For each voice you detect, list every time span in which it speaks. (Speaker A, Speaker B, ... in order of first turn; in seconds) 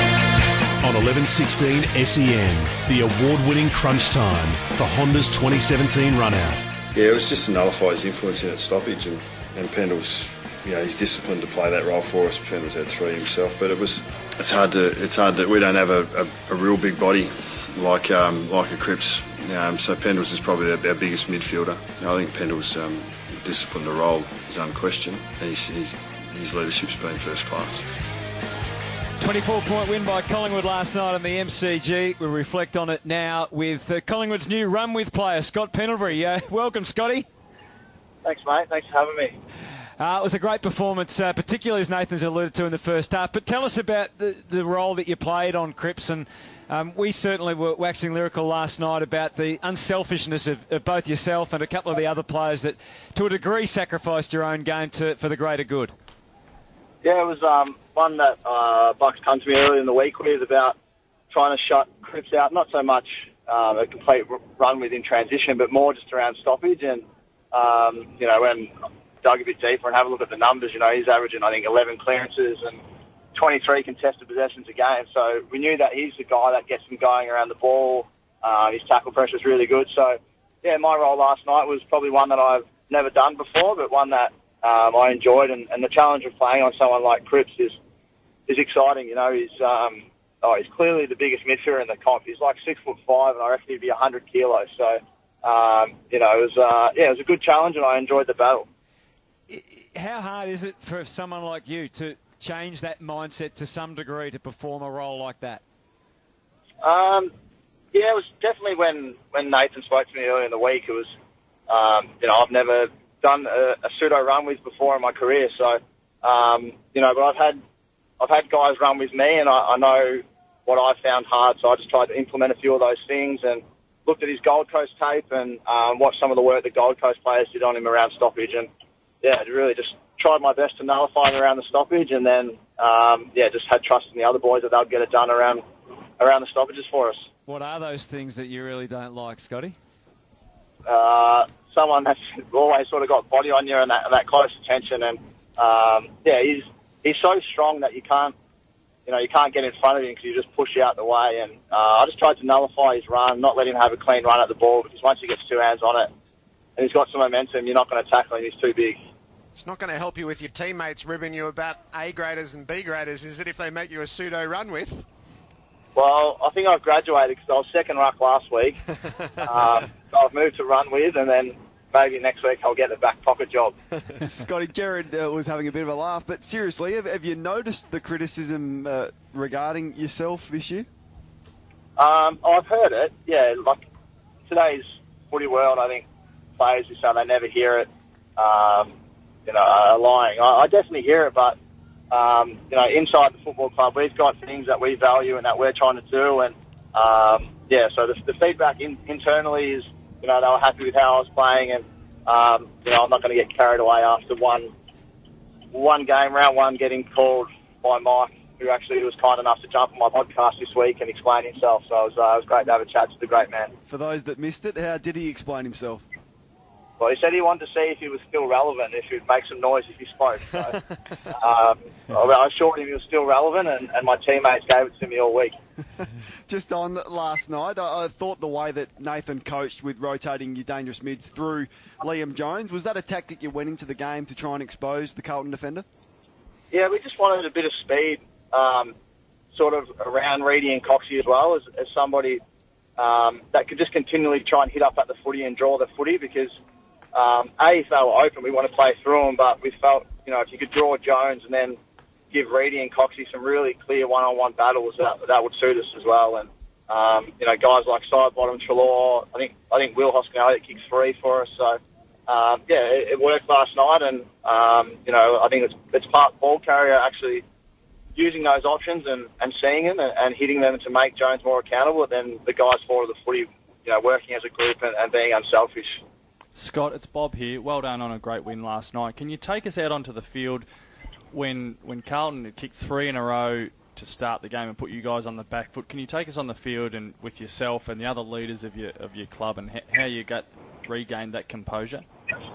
Speaker A: 0.8-6.6
Speaker B: 6.9-27.8
Speaker C: 29.2-37.3, 40.0-55.9, 99.5-105.6, 137.5-139.8
Speaker D: 38.2-39.4, 57.0-60.7, 61.3-68.7, 69.2-72.8, 73.3-87.8, 88.5-98.7, 106.8-107.3, 107.9-111.1, 111.7-117.6, 118.2-128.7, 129.2-135.6, 136.2-137.3, 140.8-148.3, 149.1-156.1, 156.8-159.0, 165.9-168.8, 169.4-173.8, 182.0-183.8, 184.5-186.0, 186.6-188.9, 189.4-191.6, 192.1-204.7, 205.7-213.7, 217.0-220.8, 221.4-225.5, 236.7-238.9, 239.5-242.4, 243.0-246.5, 247.1-251.8, 252.3-267.4, 268.1-276.0
Speaker E: 159.5-165.0
Speaker F: 174.2-180.9, 213.9-216.0, 226.5-235.8
Speaker G: 276.5-280.6, 281.3-292.0